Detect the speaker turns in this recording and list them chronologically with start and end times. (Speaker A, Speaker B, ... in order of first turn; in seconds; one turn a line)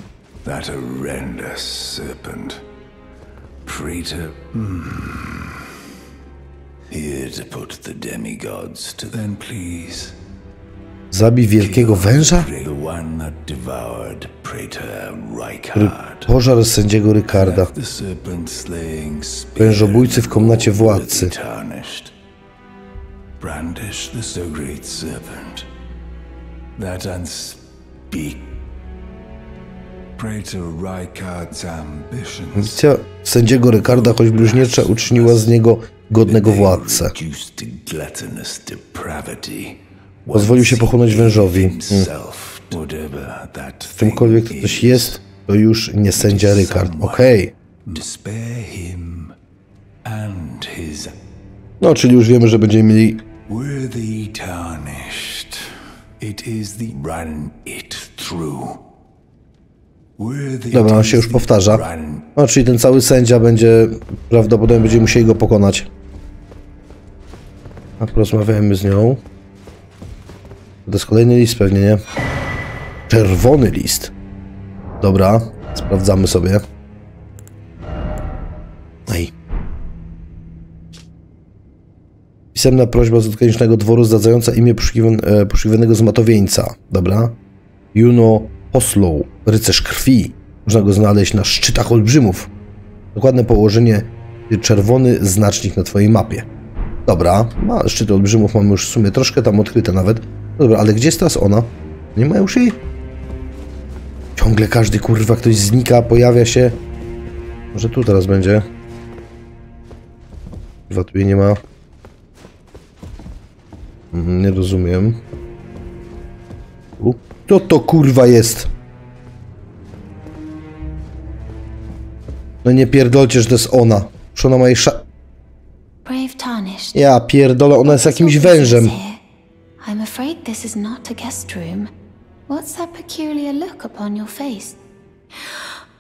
Speaker A: 0.4-2.6
Speaker A: 3.6-5.6
Speaker A: 6.9-10.1
Speaker B: 11.1-12.5
Speaker A: 11.6-16.3
Speaker B: 15.7-17.7
Speaker A: 17.3-22.1
Speaker B: 19.6-21.3
Speaker A: 23.4-25.6
Speaker A: 26.8-28.5
Speaker A: 30.2-32.8
Speaker B: 32.5-37.1
Speaker A: 33.7-35.5
Speaker A: 36.2-45.2
Speaker B: 40.3-42.1
Speaker B: 43.9-47.5
Speaker A: 46.1-47.3
Speaker A: 47.9-49.3
Speaker A: 50.0-51.1
Speaker B: 51.8-53.2
Speaker A: 53.5-55.6
Speaker A: 56.2-58.8
Speaker A: 60.2-62.3
Speaker B: 60.7-65.9
Speaker B: 68.0-69.2
Speaker B: 70.9-72.0
Speaker B: 73.1-74.1
Speaker B: 75.0-76.6
Speaker B: 79.1-79.3
Speaker B: 82.5-87.4
Speaker B: 87.9-92.5
Speaker B: 93.1-96.5
Speaker B: 97.0-102.8
Speaker B: 104.4-106.8
Speaker B: 107.7-108.7
Speaker B: 110.9-111.6
Speaker B: 114.1-115.2
Speaker B: 117.0-118.7
Speaker B: 122.6-125.0
Speaker C: 126.0-127.0
Speaker B: 126.9-128.9
Speaker C: 127.8-129.2
Speaker C: 129.8-131.9
Speaker C: 132.5-134.8
Speaker C: 135.4-135.8